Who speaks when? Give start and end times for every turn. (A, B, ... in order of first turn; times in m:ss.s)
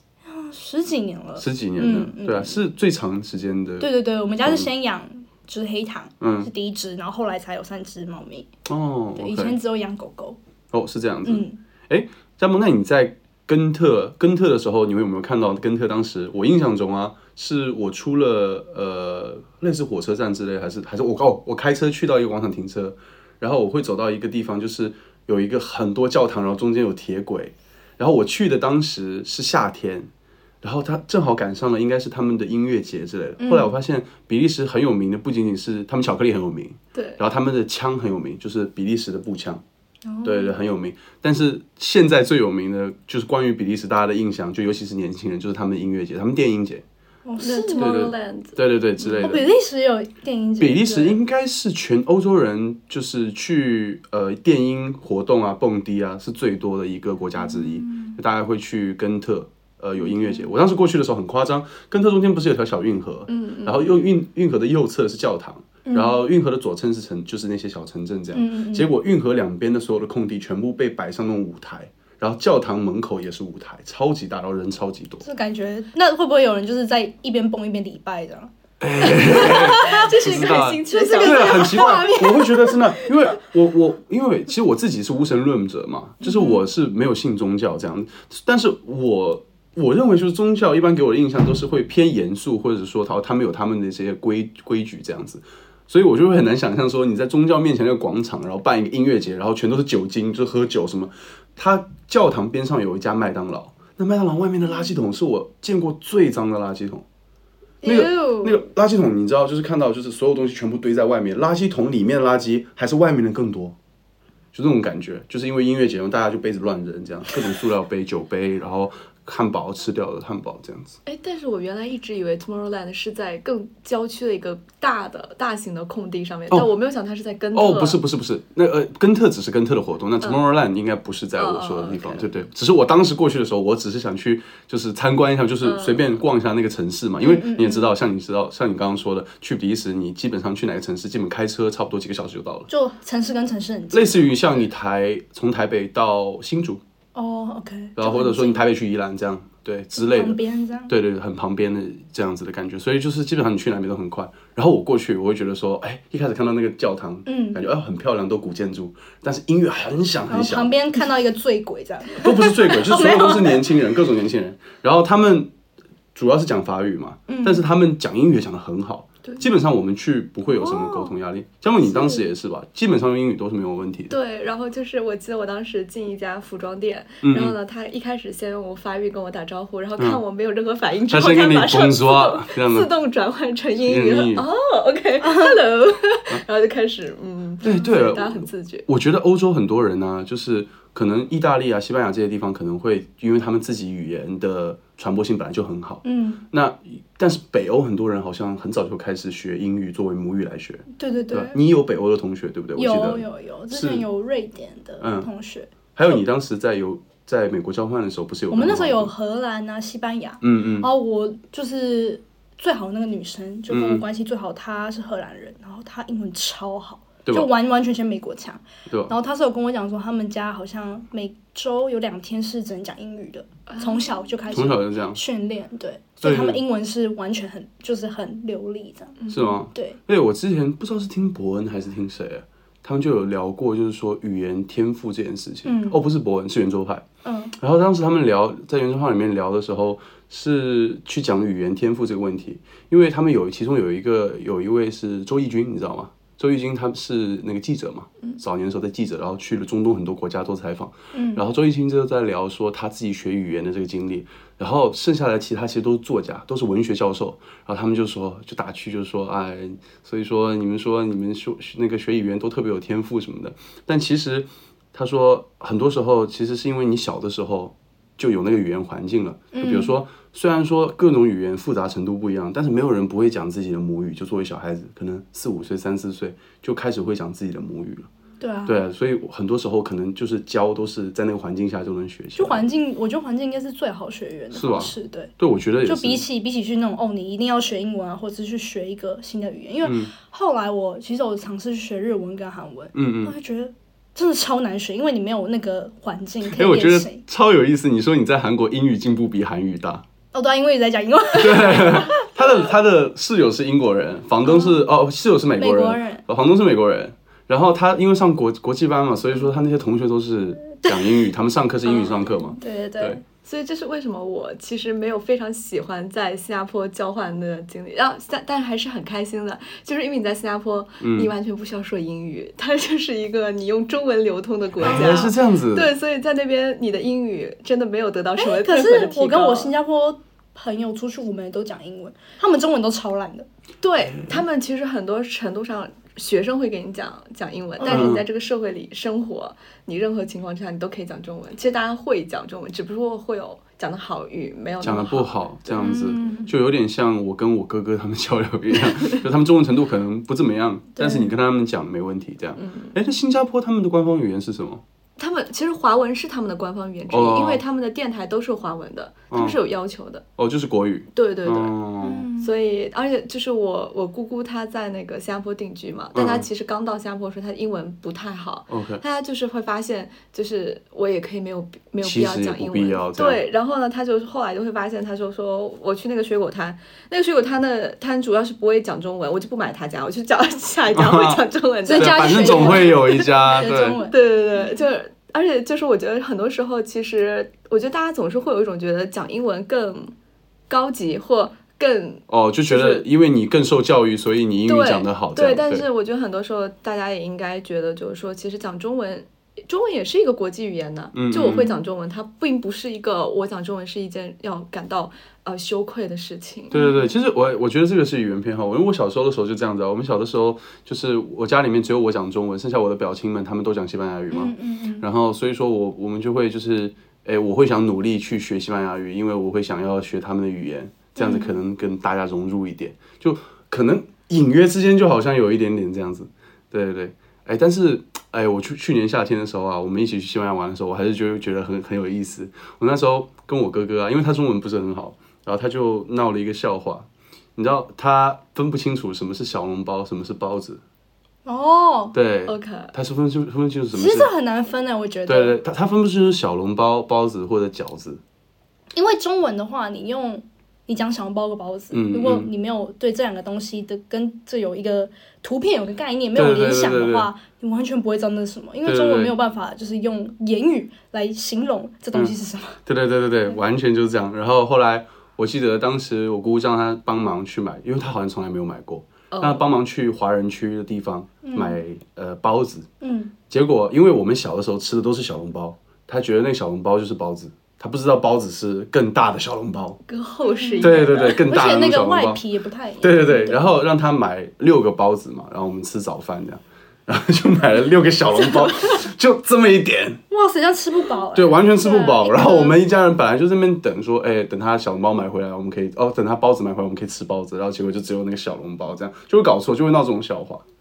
0:00.3-0:02.6 A
0:01.4-0:04.7 B
0:03.8-0:08.5 A
0:06.2-0:06.5 B
0:08.7-0:09.6 B
0:09.2-0:10.4 A
0:10.7-0:30.1 B
0:11.2-0:11.6 A
0:30.6-0:39.6 B
0:33.4-0:33.7 A
0:36.9-0:37.2 C
0:40.0-0:40.6 A
0:40.2-0:46.8 B
0:47.2-0:48.1 A
0:47.4-0:48.6 C
0:47.8-0:49.5 B
0:49.0-0:51.2 A
0:50.6-1:15.2 B
0:57.4-0:58.2 A
1:00.0-1:00.5 A
1:03.3-1:03.9 C
1:05.8-1:06.2 A
1:08.3-1:08.9 A
1:15.2-1:22.9 A
1:18.8-1:47.0 B
1:19.2-1:22.2 C
1:26.2-1:26.6 A
1:47.8-1:48.6 A
1:47.8-1:53.8 B
1:54.5-2:01.0 B
2:01.0-2:08.0 C
2:07.5-2:22.7 B
2:11.4-2:12.3 C
2:15.6-2:16.1 C
2:17.2-2:17.9 A
2:22.7-2:24.3 A
2:23.9-2:26.8 B
2:27.1-2:28.6 A
2:28.0-2:40.7 B
2:30.0-2:30.9 A
2:37.2-2:37.6 A
2:40.3-2:43.7 A
2:42.2-2:45.5 B
2:46.1-2:54.1 B
2:47.3-2:47.6 A
2:50.5-2:51.2 A
2:51.8-2:52.3 A
2:54.1-3:08.8 C
2:57.2-2:57.6 B
3:01.1-3:02.9 B
3:03.8-3:04.4 B
3:05.2-3:05.7 A
3:07.6-3:24.0 B
3:16.0-3:16.4 A
3:20.9-3:21.6 A
3:22.8-3:25.7 A
3:25.0-3:25.3 B
3:25.9-3:29.1 B
3:28.5-3:49.2 A
3:30.4-3:30.9 B
3:33.7-3:34.0 B
3:37.2-3:37.5 B
3:43.7-3:44.1 C
3:44.5-3:45.2 B
3:46.2-3:46.6 B
3:49.2-3:49.6 C
3:49.3-3:57.0 B
3:49.7-3:50.0 A
3:55.6-3:56.0 A
3:57.2-3:57.5 A
3:57.6-4:38.1 B
4:11.1-4:11.4 A
4:29.5-4:29.9 A
4:38.4-4:38.8 A
4:38.6-4:42.6 B
4:42.4-4:45.3 A
4:44.5-4:46.2 B
4:45.8-4:57.2 A
4:49.8-4:50.1 B
4:52.9-4:53.3 B
4:56.4-5:00.0 B
5:00.3-5:02.1 A
5:01.4-5:13.2 B
5:04.4-5:04.8 A
5:05.5-5:06.2 A
5:10.8-5:11.2 A
5:12.6-5:13.2 A
5:13.4-5:29.7 C
5:21.0-5:21.3 B
5:24.8-5:25.9 B
5:28.4-5:33.5 A
5:33.8-5:45.9 C
5:37.8-5:38.2 A
5:37.9-5:38.2 B
5:44.8-5:54.8 B
5:45.8-5:46.5 A
5:50.9-5:51.3 A
5:52.6-5:52.9 C
5:55.2-6:00.2 C
5:57.1-5:57.6 B
5:59.3-5:59.6 B
6:00.4-6:02.2 B
6:01.1-6:01.8 C
6:02.0-6:02.5 A
6:02.3-6:23.3 C
6:06.1-6:06.4 B
6:08.7-6:09.0 B
6:12.0-6:13.4 B
6:20.9-6:21.4 B
6:21.8-6:24.7 A
6:21.9-6:24.0 B
6:24.0-6:30.1 C
6:30.7-6:33.0 C
6:32.3-6:35.8 B
6:34.6-6:46.8 C
6:41.1-6:41.7 B
6:41.4-6:41.7 A
6:46.7-7:20.8 B
6:46.7-6:47.1 A
6:54.3-6:55.1 A
7:01.2-7:01.6 A
7:21.4-7:22.1 A
7:22.1-7:24.3 B
7:22.5-7:22.9 C
7:23.9-7:25.6 A
7:25.3-7:28.2 B
7:28.9-7:42.8 A
7:31.9-7:32.5 B
7:36.3-7:37.3 B
7:38.8-7:39.3 B
7:42.8-7:52.9 B
7:49.3-7:49.6 C
7:51.4-7:51.8 A
7:53.0-7:53.3 A
7:53.5-8:00.0 B
8:00.1-8:01.4 C
8:00.4-8:03.6 A
8:00.8-8:02.4 B
8:03.0-8:10.2 B
8:10.3-8:12.8 A
8:11.3-8:20.6 B